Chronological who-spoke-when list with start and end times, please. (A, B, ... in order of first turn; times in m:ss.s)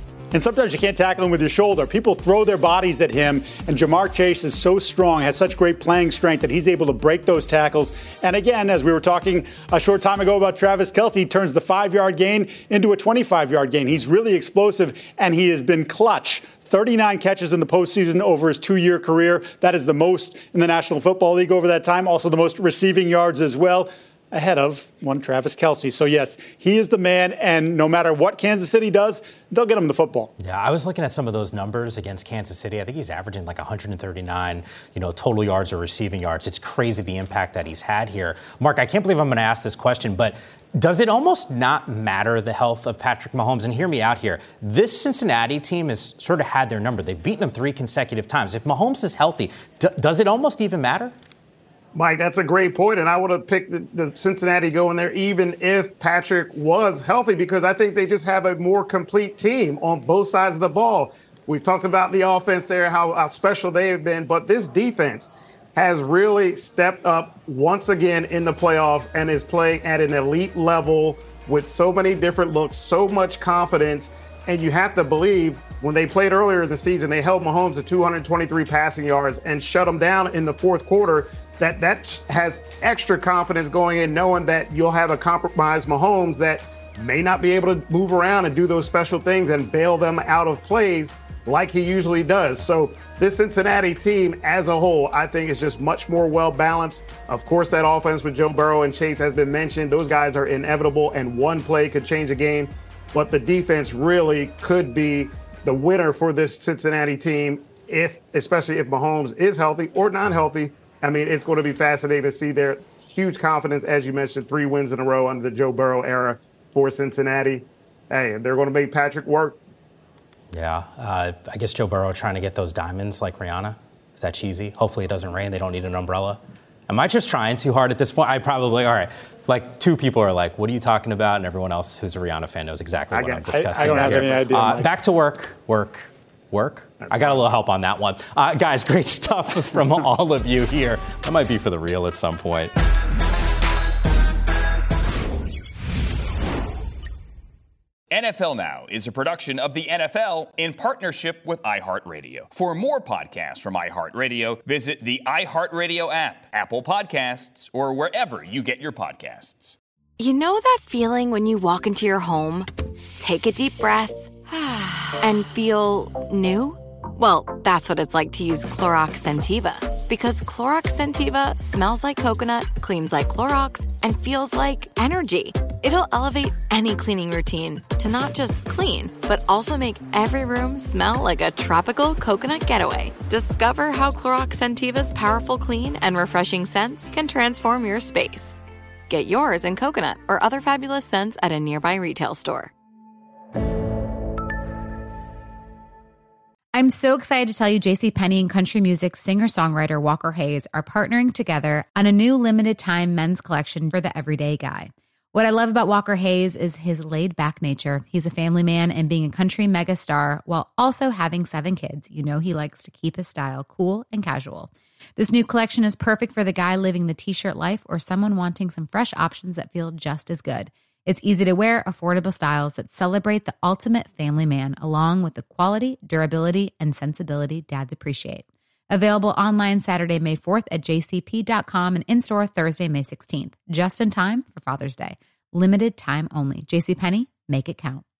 0:00.3-0:30.3 A
0:30.4-0:51.1 B
0:51.9-1:59.6 C
2:00.5-2:22.7 B
2:13.1-2:14.8 C
2:13.5-2:14.8 A
2:17.0-2:17.4 C
2:28.1-2:39.8 D
2:40.2-3:12.7 E
3:16.7-3:58.0 F